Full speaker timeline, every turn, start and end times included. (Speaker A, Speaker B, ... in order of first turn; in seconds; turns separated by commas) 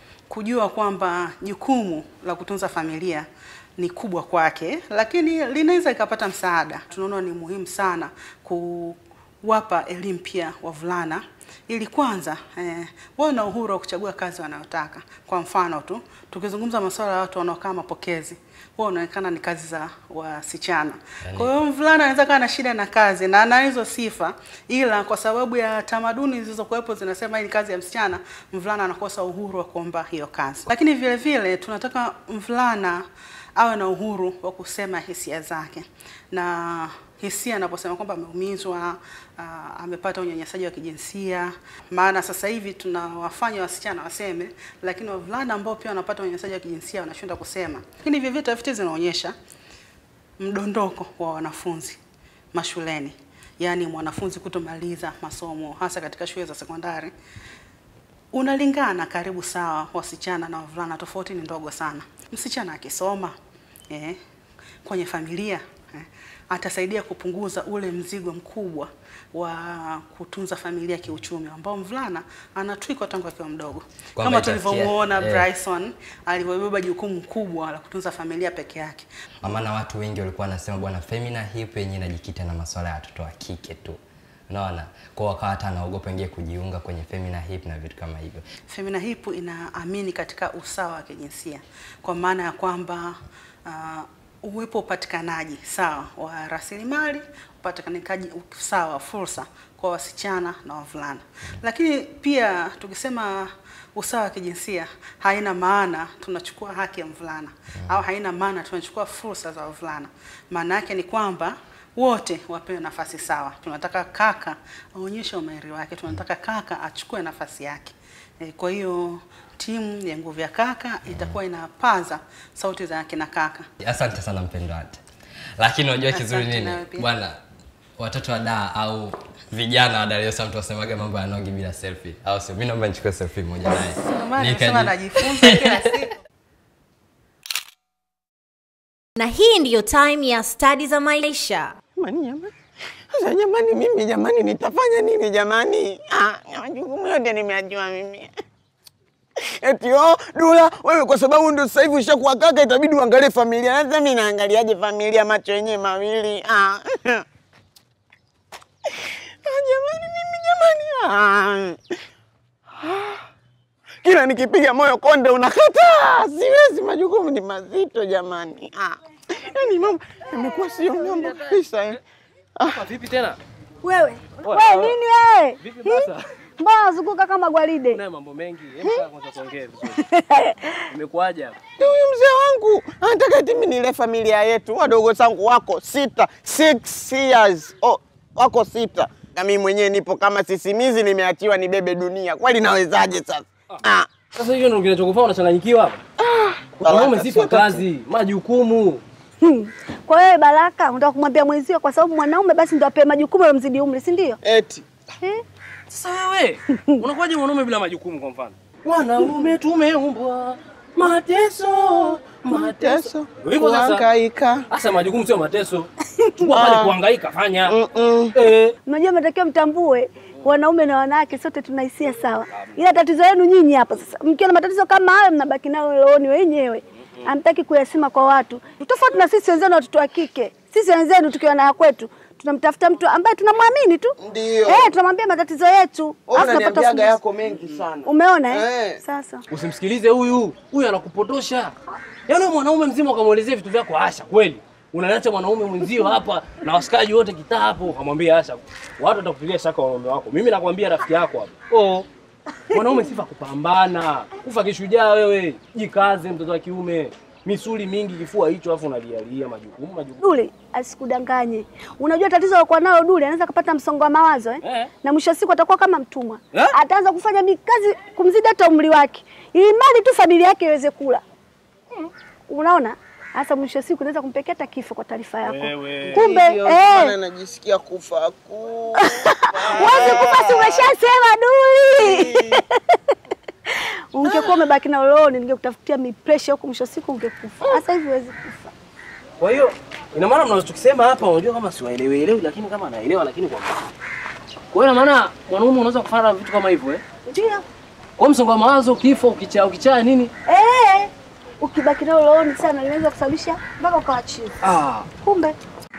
Speaker A: 0.3-49.4, Speaker A: 50.4-52.0, Speaker A: 52.5-57.1, Speaker A: 58.3-63.4, Speaker A: 63.9-64.2, Speaker A: 64.8-79.5, Speaker B: 74.2-75.4, Speaker B: 79.5-84.0, Speaker B: 84.5-88.4, Speaker A: 88.7-123.7, Speaker B: 123.9-124.9, Speaker B: 125.6-127.1, Speaker A: 126.0-127.1, Speaker B: 128.0-129.0, Speaker B: 129.6-133.9, Speaker A: 133.6-136.1, Speaker B: 134.5-134.9, Speaker C: 139.2-141.8, Speaker D: 142.0-142.5, Speaker D: 143.1-148.3, Speaker D: 149.6-157.2, Speaker D: 159.4-161.8, Speaker D: 162.8-163.2, Speaker D: 164.0-172.0, Speaker E: 172.7-173.4, Speaker F: 173.8-175.5, Speaker E: 174.4-175.0, Speaker E: 175.6-176.2, Speaker F: 176.6-178.0, Speaker E: 177.9-180.0, Speaker F: 180.2-180.5, Speaker E: 180.9-181.6, Speaker D: 181.8-194.1, Speaker E: 194.4-196.0, Speaker D: 196.2-197.8, Speaker E: 196.8-199.0, Speaker F: 199.5-204.3, Speaker D: 204.4-204.9, Speaker E: 205.9-214.1, Speaker D: 212.5-214.6, Speaker E: 214.7-217.8, Speaker D: 216.6-216.9, Speaker D: 217.7-218.3, Speaker E: 218.3-218.8, Speaker F: 218.9-234.1, Speaker D: 234.2-234.9, Speaker F: 234.7-237.2, Speaker D: 236.3-239.0, Speaker F: 238.0-239.4, Speaker E: 239.5-241.8, Speaker E: 242.3-252.1, Speaker E: 252.7-260.2, Speaker F: 260.2-271.2, Speaker F: 272.5-277.1, Speaker E: 275.4-276.2, Speaker D: 276.2-279.1, Speaker F: 279.0-282.6, Speaker D: 279.6-280.8, Speaker D: 282.1-282.4, Speaker F: 284.1-288.7, Speaker E: 289.4-293.8, Speaker E: 294.7-297.0, Speaker F: 297.3-297.6, Speaker E: 298.2-300.3, Speaker F: 300.5-301.1, Speaker F: 301.6-304.6, Speaker E: 304.6-305.1, Speaker F: 305.2-305.6